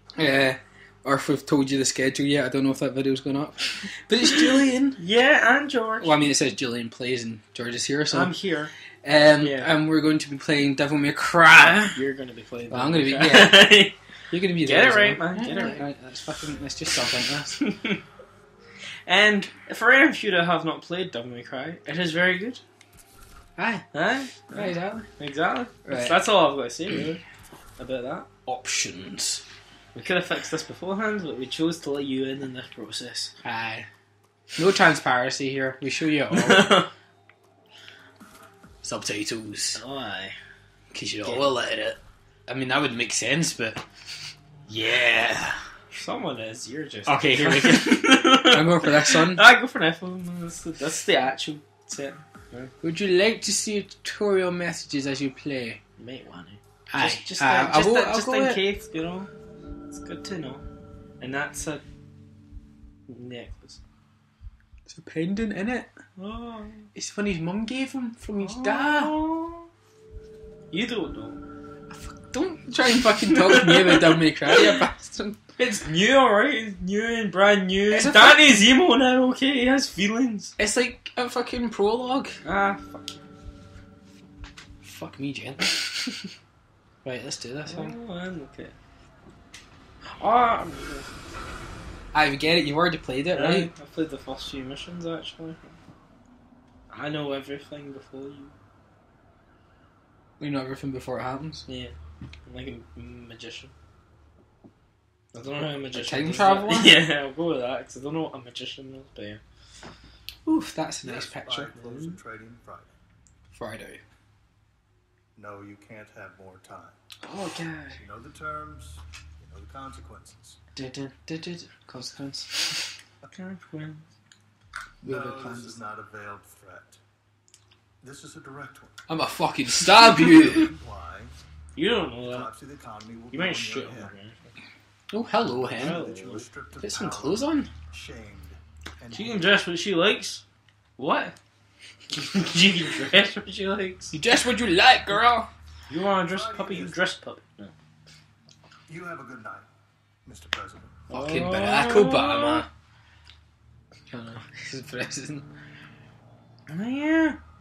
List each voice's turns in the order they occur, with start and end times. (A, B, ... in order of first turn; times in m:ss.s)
0:00.2-0:05.0 A
0:05.0-0:06.2 B
0:06.0-0:08.3 A
0:08.1-0:08.7 B
0:09.0-0:12.0 A
0:09.4-0:09.7 B
0:11.5-0:14.0 B
0:12.7-0:13.8 A
0:14.3-0:17.6 A
0:14.6-0:15.8 B
0:17.6-0:18.0 B
0:19.0-0:22.6 B
0:23.6-0:23.8 A
0:23.9-0:27.2 B
0:24.5-0:25.1 A
0:25.8-0:26.2 A
0:27.8-0:28.3 B
0:28.4-0:29.4 A
0:29.9-0:33.3 B
0:33.4-0:33.9 A
0:34.6-0:36.8 A
0:36.3-0:36.9 B
0:38.8-0:39.8 A
0:39.7-0:40.4 B
0:40.9-0:43.8 A
0:41.2-0:41.5 B
0:44.7-0:45.6 A
0:45.9-0:52.7 B
0:47.1-0:49.4 A
0:52.8-0:55.8 A
0:56.0-0:59.3 B
0:56.9-0:58.6 A
0:59.9-1:00.6 B
1:01.2-1:01.8 B
1:03.1-1:03.8 B
1:04.8-1:05.9 A
1:06.2-1:06.9 B
1:06.9-1:09.2 A
1:08.4-1:09.7 B
1:10.7-1:11.4 B
1:11.9-1:15.6 A
1:13.2-1:14.8 B
1:15.6-1:20.5 B
1:17.9-1:18.6 A
1:20.6-1:22.3 A
1:22.4-1:23.2 B
1:24.8-1:26.0 A
1:27.0-1:28.0 A
1:27.6-1:28.7 B
1:30.0-1:31.1 B
1:32.1-1:33.7 A
1:33.3-1:35.8 B
1:36.9-1:38.5 B
1:40.4-1:41.6 A
1:41.7-1:41.9 B
1:42.4-1:43.7 B
1:45.3-1:49.4 B
1:45.9-1:47.0 A
1:50.4-1:51.7 A
1:51.0-1:52.9 C
1:51.7-1:52.2 B
1:53.5-1:54.0 A
1:55.4-1:57.0 C
1:57.2-1:58.0 B
1:58.0-2:00.6 C
2:00.7-2:02.8 A
2:03.3-2:04.1 B
2:05.0-2:05.8 A
2:05.0-2:07.0 C
2:08.0-2:09.0 C
2:09.1-2:10.7 A
2:10.0-2:11.3 C
2:11.8-2:12.5 B
2:12.2-2:14.1 C
2:13.3-2:14.4 B
2:15.1-2:16.0 A
2:15.4-2:19.6 C
2:15.8-2:16.5 B
2:16.8-2:17.7 A
2:19.1-2:20.4 B
2:21.0-2:21.3 B
2:22.1-2:24.2 B
2:24.1-2:25.5 A
2:25.9-2:27.7 B
2:26.3-2:27.0 C
2:28.9-2:29.7 C
2:30.2-2:31.0 C
2:31.1-2:32.6 B
2:31.1-2:32.7 A
2:34.1-2:35.4 A
2:36.7-2:37.4 B